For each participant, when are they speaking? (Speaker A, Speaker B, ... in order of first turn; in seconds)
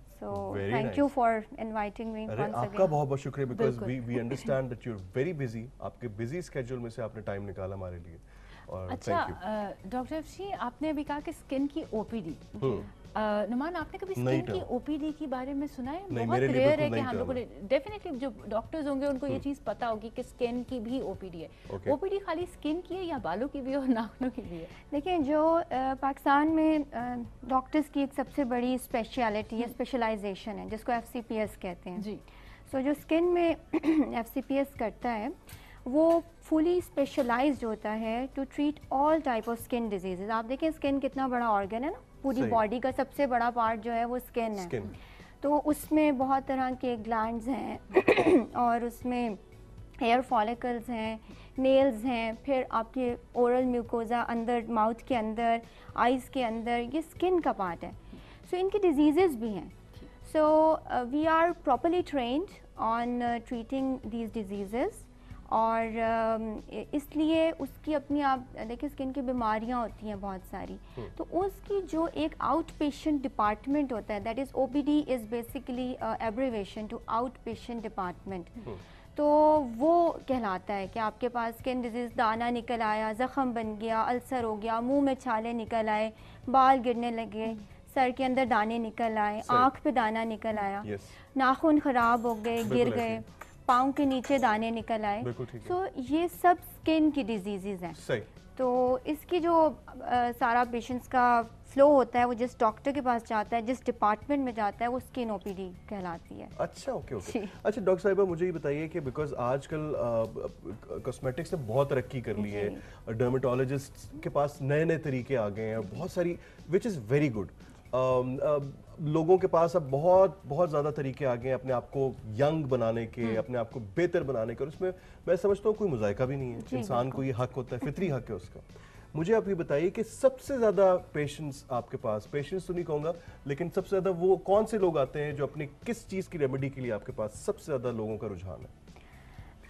Speaker A: 0.1-2.9, 24.9-32.1, 32.7-44.7, 45.4-49.4, 50.0-98.0, 98.5-106.5, 107.2-107.5, 112.3-112.8, 126.6-127.2
Speaker B: 0.3-1.1, 2.3-9.4, 12.6-12.8, 14.2-14.7, 16.1-17.4, 21.7-22.0, 42.3-42.6, 44.6-44.9, 89.4-89.7, 90.8-91.1, 92.6-93.2, 95.2-95.7, 97.9-98.3, 106.6-138.7
Speaker C: 3.5-4.5, 8.9-24.7